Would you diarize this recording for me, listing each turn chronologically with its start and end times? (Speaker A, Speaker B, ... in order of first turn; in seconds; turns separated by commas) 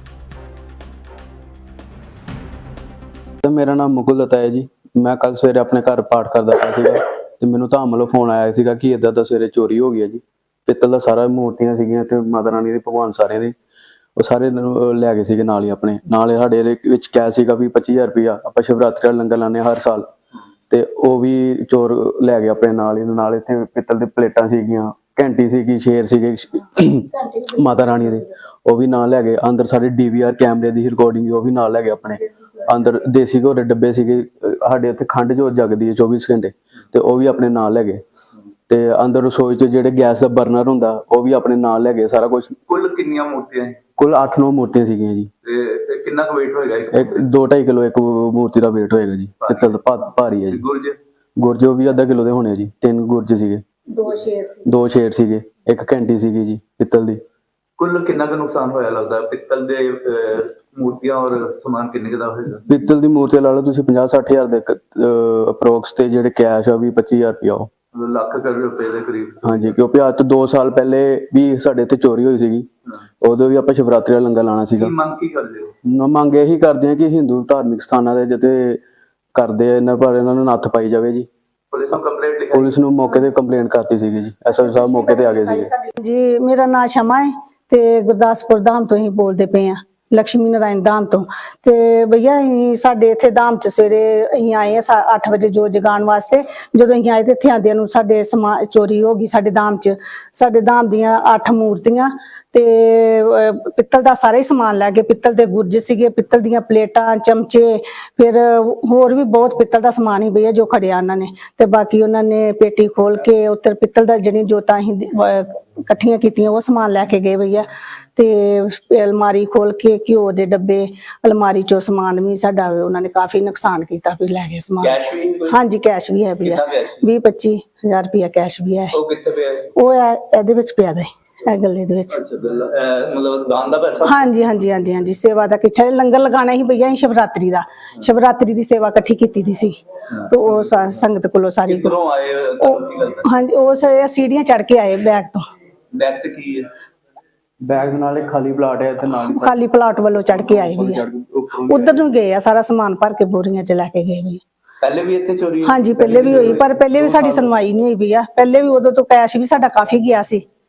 Speaker A: 3.4-13.5, Speaker A: 14.2-20.1, Speaker A: 20.7-38.0, Speaker A: 38.7-42.6, Speaker B: 42.7-43.8, Speaker A: 44.0-45.3, Speaker B: 45.4-47.2, Speaker A: 46.9-50.6, Speaker B: 49.4-49.7, Speaker B: 50.5-51.0, Speaker A: 51.4-53.6, Speaker C: 53.9-54.6, Speaker A: 54.6-57.2, Speaker B: 57.8-62.6, Speaker A: 62.7-67.7, Speaker B: 67.9-69.7, Speaker A: 69.4-72.7, Speaker A: 73.2-74.9, Speaker B: 74.8-75.7, Speaker A: 75.8-78.8, Speaker A: 79.3-81.3, Speaker B: 81.7-82.8, Speaker A: 82.5-85.7, Speaker C: 84.8-125.0, Speaker B: 124.8-125.6, Speaker C: 125.5-128.9, Speaker B: 126.4-127.0, Speaker B: 128.9-129.7, Speaker C: 129.8-132.2, Speaker B: 132.1-134.3, Speaker C: 134.0-139.8, Speaker C: 140.3-141.9, Speaker B: 140.3-141.0, Speaker B: 141.7-143.3, Speaker C: 142.6-145.4, Speaker B: 145.9-146.7, Speaker A: 147.6-149.6, Speaker C: 149.3-151.0, Speaker A: 150.3-152.1, Speaker C: 151.7-154.4, Speaker B: 154.8-156.8, Speaker C: 155.6-160.4, Speaker A: 156.0-157.6